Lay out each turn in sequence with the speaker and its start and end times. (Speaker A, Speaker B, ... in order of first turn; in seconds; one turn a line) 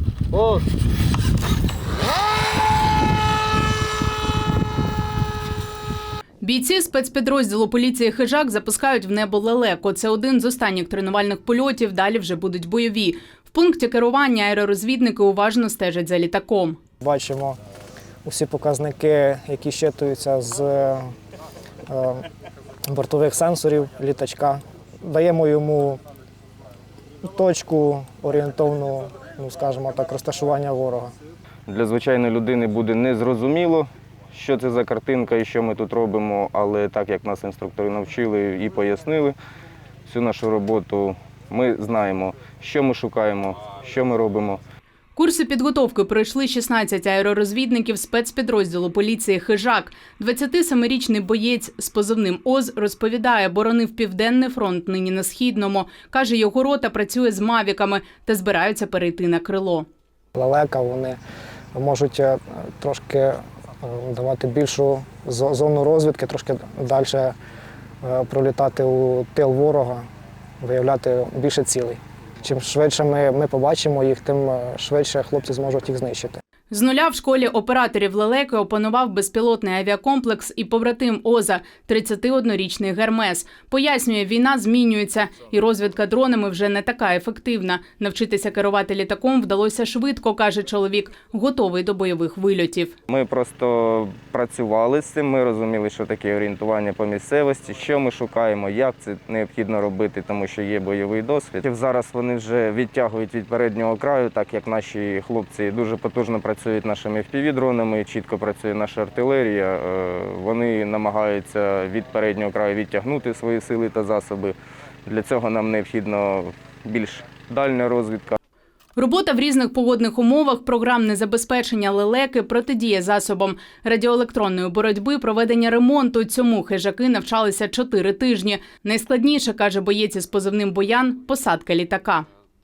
Speaker A: 6.4-16.8
Speaker B: 17.0-17.6
Speaker B: 18.2-21.1
Speaker B: 21.9-22.2
Speaker B: 22.9-26.0
Speaker B: 27.2-31.1
Speaker C: 31.7-39.4
Speaker C: 40.1-44.6
Speaker A: 45.2-59.9
Speaker B: 60.4-61.2
Speaker B: 61.8-67.3
Speaker B: 68.0-70.0
Speaker B: 70.6-76.4
Speaker A: 76.7-92.9
Speaker C: 93.1-118.4
Speaker A: 119.0-132.2